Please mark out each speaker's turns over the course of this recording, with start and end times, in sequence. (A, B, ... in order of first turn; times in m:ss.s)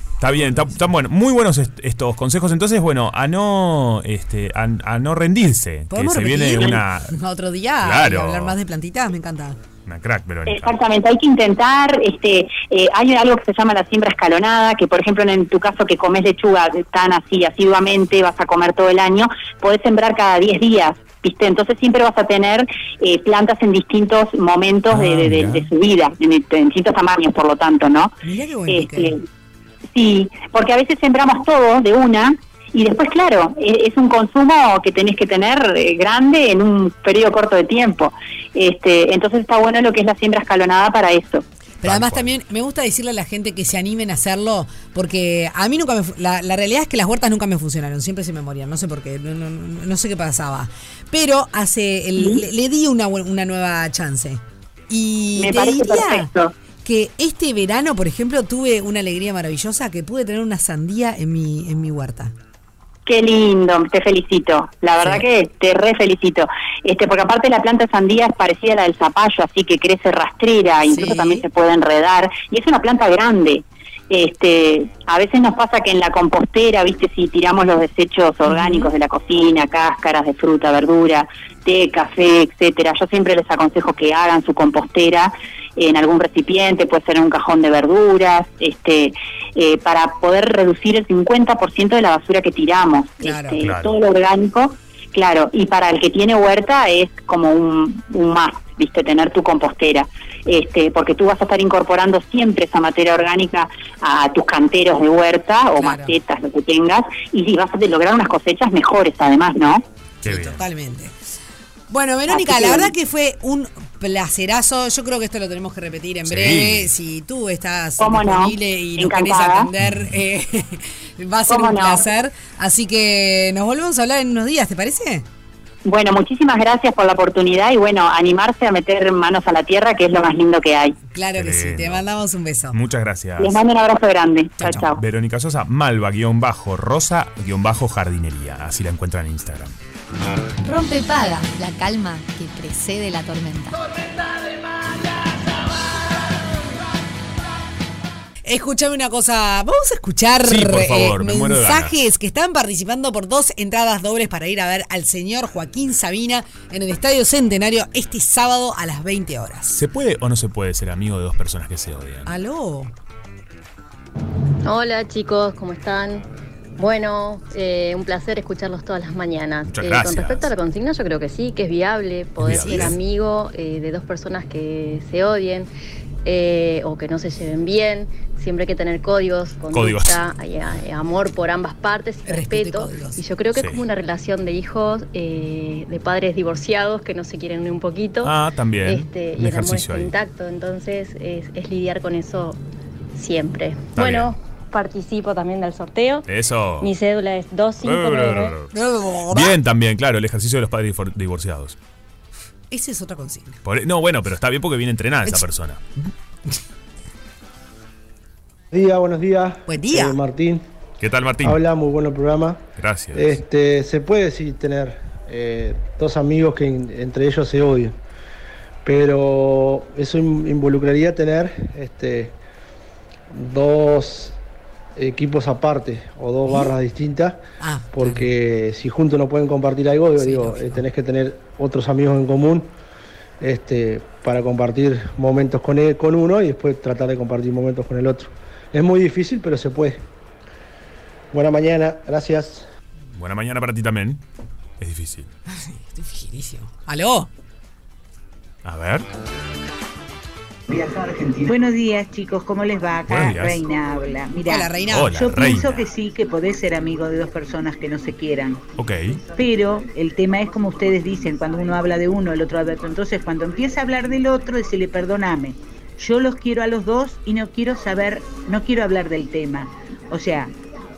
0:00.2-0:07.1 A
0:00.3-0:00.8 B
0:05.9-0:09.6 B
0:07.8-0:08.6 A
0:09.8-0:10.8 A
0:10.5-0:28.1 C
0:24.9-0:25.7 A
0:28.2-0:29.1 B
0:28.7-0:29.2 C
0:29.9-0:41.4 C
0:41.8-0:56.3 B
0:41.8-0:42.3 A
0:52.2-0:52.4 C
0:55.4-0:56.5 C
0:56.8-1:02.3 B
1:03.0-1:49.8 C
1:05.0-1:05.2 B
1:10.9-1:11.4 B
1:18.4-1:18.9 B
1:33.2-1:33.6 B
1:33.6-1:33.9 A
1:45.8-1:46.2 B
1:50.2-1:50.6 A
1:50.2-1:51.1 B
1:51.9-2:05.2 B
1:52.3-1:52.9 C
1:56.2-1:56.9 A
1:58.0-1:59.7 C
1:59.8-2:00.1 A
2:01.5-2:02.0 C
2:05.8-2:11.0 C
2:11.1-2:12.8 B
2:11.3-2:12.0 A
2:12.7-2:13.6 A
2:13.4-2:15.0 C
2:14.6-2:14.9 B
2:14.6-2:19.7 A
2:20.6-2:23.8 D
2:28.4-2:39.8 B
2:30.4-2:32.0 A
2:39.7-2:42.3 A
2:42.2-2:42.9 B
2:44.6-2:46.2 E
2:46.8-2:55.7 E
2:49.7-2:50.5 A
2:52.4-2:53.0 A
2:52.5-2:52.9 B
2:56.2-3:12.6 E
2:59.7-3:00.2 A
3:02.2-3:03.2 B
3:03.5-3:03.8 A
3:08.2-3:10.1 A
3:13.1-3:16.2 E
3:14.0-3:14.3 A
3:16.3-3:16.9 A
3:16.8-3:18.5 E
3:17.8-3:18.7 A
3:18.7-3:19.6 B
3:19.3-3:21.8 A
3:22.7-3:23.6 B
3:23.6-3:25.8 A
3:28.7-3:30.6 F
3:29.7-3:30.2 B
3:31.0-3:31.6 A
3:31.4-3:37.9 F
3:32.8-3:33.4 A
3:38.8-3:42.4 F
3:43.3-3:44.4 F
3:45.0-3:52.7 F
3:47.6-3:48.3 B
3:50.2-3:50.8 B
3:53.4-4:00.0 F
4:01.3-4:02.6 F
4:03.1-4:04.2 A
4:04.8-4:05.3 A
4:05.5-4:07.3 B
4:08.6-4:09.1 A
4:11.2-4:18.6 G
4:13.1-4:13.6 A
4:14.4-4:15.2 B
4:14.9-4:15.9 A
4:18.8-4:19.2 A
4:19.3-4:30.5 G